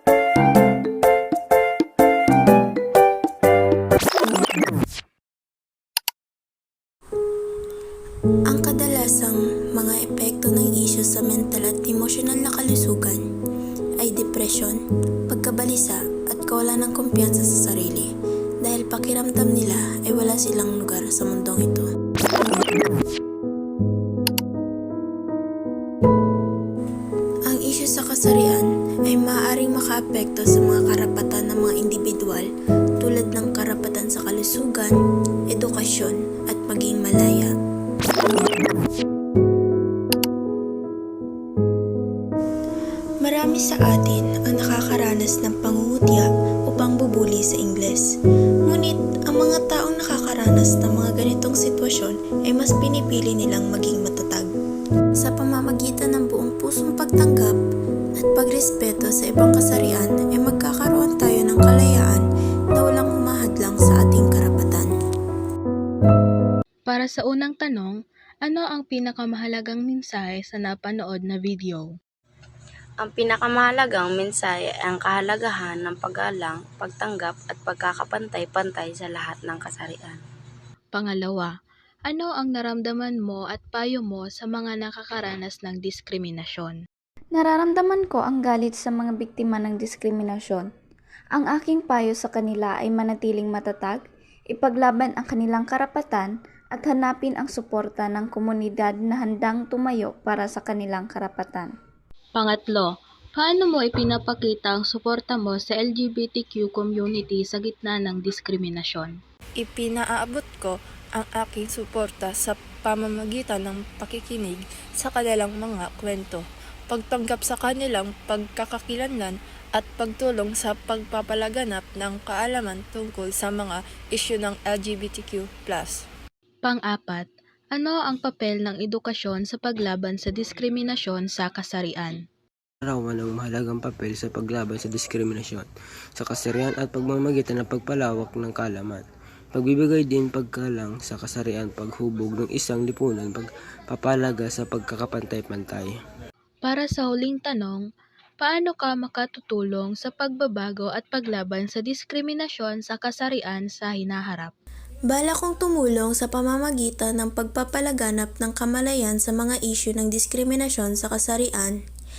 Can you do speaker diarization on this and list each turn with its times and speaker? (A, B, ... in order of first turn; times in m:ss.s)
0:08.5-0:13.2 A
0:14.0-0:18.1 A
0:18.6-0:21.9 A
0:27.5-0:32.5 A
0:33.0-0:35.0 A
0:35.5-0:37.5 A
0:43.2-0:48.1 A
0:48.7-0:54.5 A
0:55.2-0:57.6 A
0:58.2-1:04.9 A
1:06.9-1:11.9 B
1:13.0-1:20.2 C
1:20.9-1:21.5 B
1:22.1-1:26.8 B
1:27.3-1:30.7 D
1:31.3-1:34.0 D
1:34.5-1:41.7 D
1:42.4-1:49.2 B
1:49.6-2:06.0 E
2:06.6-2:12.2 B
2:12.9-2:26.0 F
2:26.6-2:27.8 B
2:28.4-2:34.5 B
2:35.1-2:41.8 A